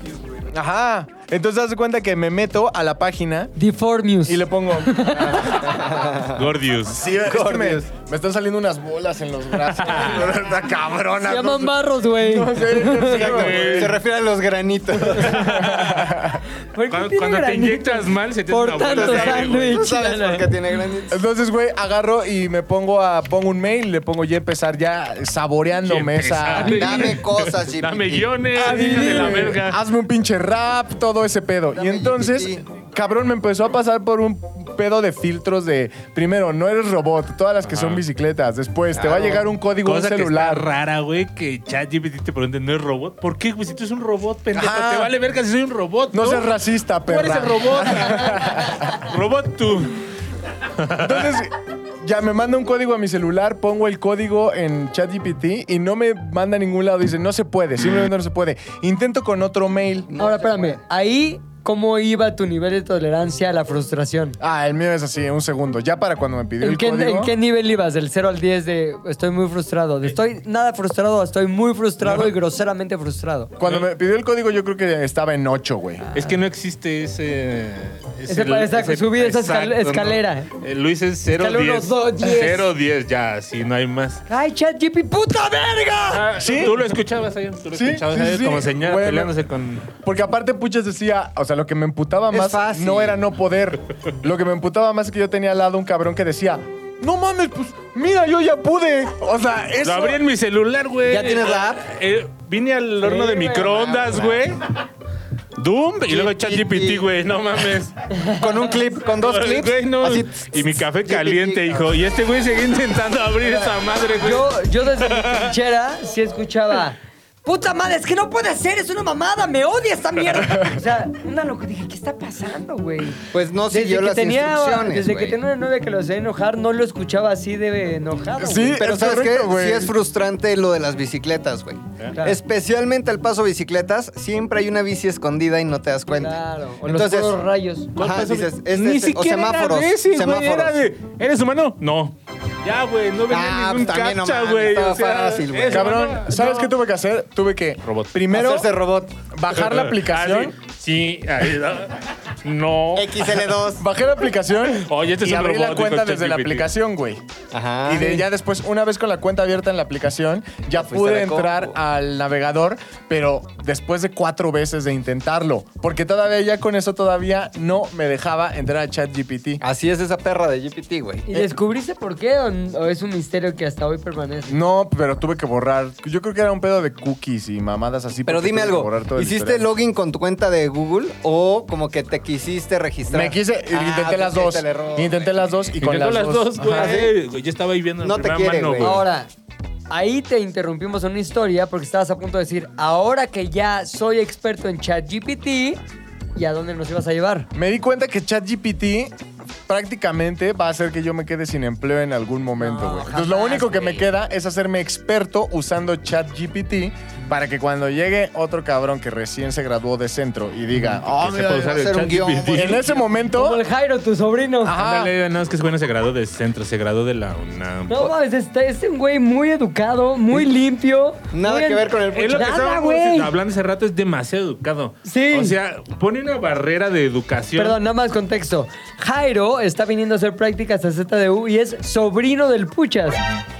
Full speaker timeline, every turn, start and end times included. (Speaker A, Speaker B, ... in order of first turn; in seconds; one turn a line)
Speaker A: 0.5-3.5
Speaker B: 3.5-5.6
Speaker A: 4.2-5.9
Speaker C: 5.5-6.5
Speaker D: 6.3-7.0
Speaker A: 6.9-13.9
Speaker C: 7.0-7.9
Speaker D: 9.6-10.2
Speaker B: 11.2-13.3
Speaker C: 13.1-15.7
Speaker D: 13.1-14.0
Speaker D: 15.1-16.1
Speaker A: 15.2-16.4
Speaker B: 16.7-20.5
Speaker D: 16.9-19.8
Speaker C: 18.8-21.2
Speaker A: 21.1-27.0
Speaker D: 25.8-29.8
Speaker B: 26.6-27.1
Speaker C: 26.7-29.0
Speaker B: 28.6-29.6
Speaker A: 29.0-40.7
Speaker C: 31.7-32.6
Speaker D: 37.6-38.0
Speaker C: 38.9-39.5
Speaker D: 39.8-46.5
Speaker A: 44.5-45.1
Speaker A: 46.1-49.0
Speaker D: 47.0-50.0
Speaker D: 50.8-51.3
Speaker A: 51.0-60.1
Speaker C: 60.1-60.8
Speaker B: 60.2-64.4
Speaker A: 64.4-67.3
Speaker B: 66.6-73.5
Speaker A: 72.0-72.3
Speaker A: 73.6-76.0
Speaker D: 73.6-73.9
Speaker B: 76.0-76.4
Speaker D: 76.1-84.2
Speaker B: 78.3-80.5
Speaker B: 81.3-82.7
Speaker B: 84.3-86.3
Speaker D: 86.1-89.9
Speaker A: 86.3-86.8
Speaker A: 87.7-89.3
Speaker A: 90.0-100.2
Speaker C: 92.3-93.2
Speaker D: 99.8-104.7
Speaker C: 101.0-101.8
Speaker B: 103.0-104.3
Speaker D: 105.6-108.0
Speaker C: 106.1-107.1
Speaker B: 108.1-108.4
Speaker C: 108.2-111.9
Speaker D: 109.0-115.5
Speaker B: 114.2-128.8
Speaker C: 123.3-125.4
Speaker A: 128.4-129.9
Speaker C: 128.7-137.4
Speaker B: 136.1-137.9
Speaker C: 137.9-140.8
Speaker D: 137.9-146.7
Speaker C: 143.3-146.0
Speaker A: 145.7-148.7
Speaker D: 147.8-148.1
Speaker C: 148.3-149.2
Speaker A: 149.3-150.5
Speaker D: 149.5-153.5
Speaker C: 152.9-153.8
Speaker A: 153.8-157.2
Speaker D: 154.8-156.7
Speaker C: 157.5-158.3
Speaker A: 157.8-169.6
Speaker C: 160.8-161.7
Speaker C: 169.6-171.5
Speaker B: 171.3-174.6
Speaker A: 174.5-179.6
Speaker C: 178.3-185.4
Speaker A: 183.1-187.0
Speaker D: 185.8-189.0
Speaker C: 186.7-187.1
Speaker C: 188.0-189.0
Speaker B: 188.8-189.3
Speaker B: 189.9-195.8
Speaker B: 196.3-197.5
Speaker A: 197.5-199.1
Speaker A: 199.7-211.7
Speaker B: 202.6-204.0
Speaker D: 210.8-212.8
Speaker C: 211.6-213.1
Speaker A: 212.5-213.6
Speaker B: 213.3-214.8
Speaker A: 214.6-215.1
Speaker D: 214.8-218.1
Speaker B: 217.9-223.3
Speaker C: 221.3-222.7
Speaker D: 222.1-227.8
Speaker B: 225.0-225.6
Speaker B: 227.6-233.2